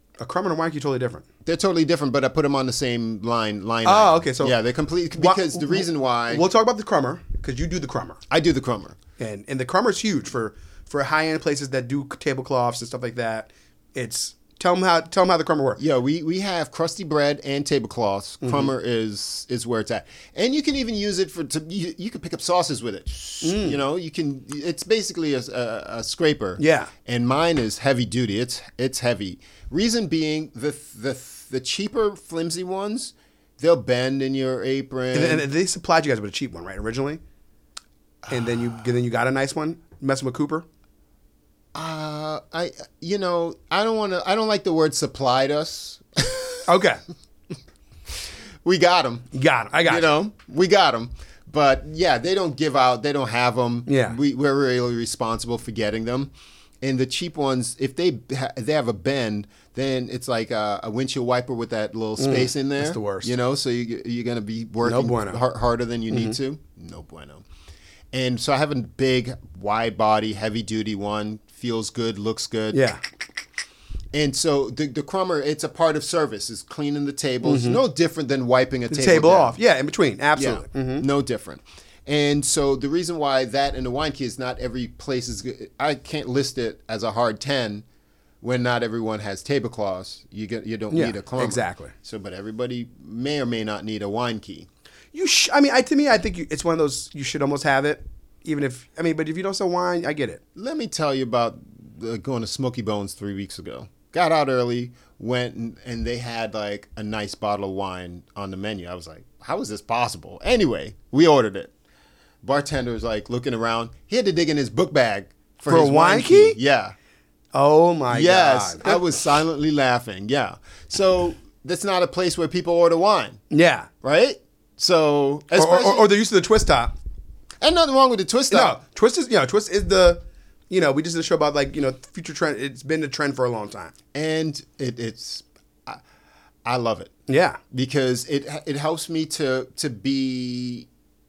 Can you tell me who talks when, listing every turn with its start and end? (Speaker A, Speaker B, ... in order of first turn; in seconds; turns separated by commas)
Speaker A: 0.2-1.2, Speaker B: 1.5-6.5, Speaker A: 3.9-4.5, Speaker A: 5.2-8.2, Speaker B: 8.3-9.0, Speaker A: 9.2-15.8, Speaker B: 15.8-35.5, Speaker A: 18.4-18.7, Speaker A: 23.4-23.8, Speaker A: 26.6-26.9, Speaker A: 35.1-37.2, Speaker B: 38.3-38.8, Speaker A: 38.3-40.7, Speaker B: 41.8-46.7, Speaker A: 46.7-47.0, Speaker B: 48.6-49.3, Speaker A: 49.3-50.1, Speaker B: 49.8-67.4, Speaker A: 53.9-54.2, Speaker A: 62.2-63.3, Speaker A: 64.8-65.4, Speaker A: 66.1-66.4, Speaker B: 68.1-72.9, Speaker A: 72.7-73.0, Speaker B: 74.1-79.6, Speaker A: 77.4-77.8, Speaker A: 78.9-81.1, Speaker B: 80.4-87.9, Speaker B: 88.4-94.7, Speaker A: 90.9-91.9, Speaker A: 95.1-100.4, Speaker B: 100.5-111.7, Speaker B: 112.4-117.0, Speaker A: 115.7-116.6, Speaker A: 117.5-119.0, Speaker B: 118.1-123.4, Speaker A: 123.5-123.9, Speaker B: 124.0-126.1, Speaker A: 125.5-127.0, Speaker B: 127.6-128.8, Speaker A: 128.5-133.9, Speaker B: 134.1-136.0, Speaker B: 136.7-137.1, Speaker A: 137.3-137.6, Speaker B: 137.7-140.9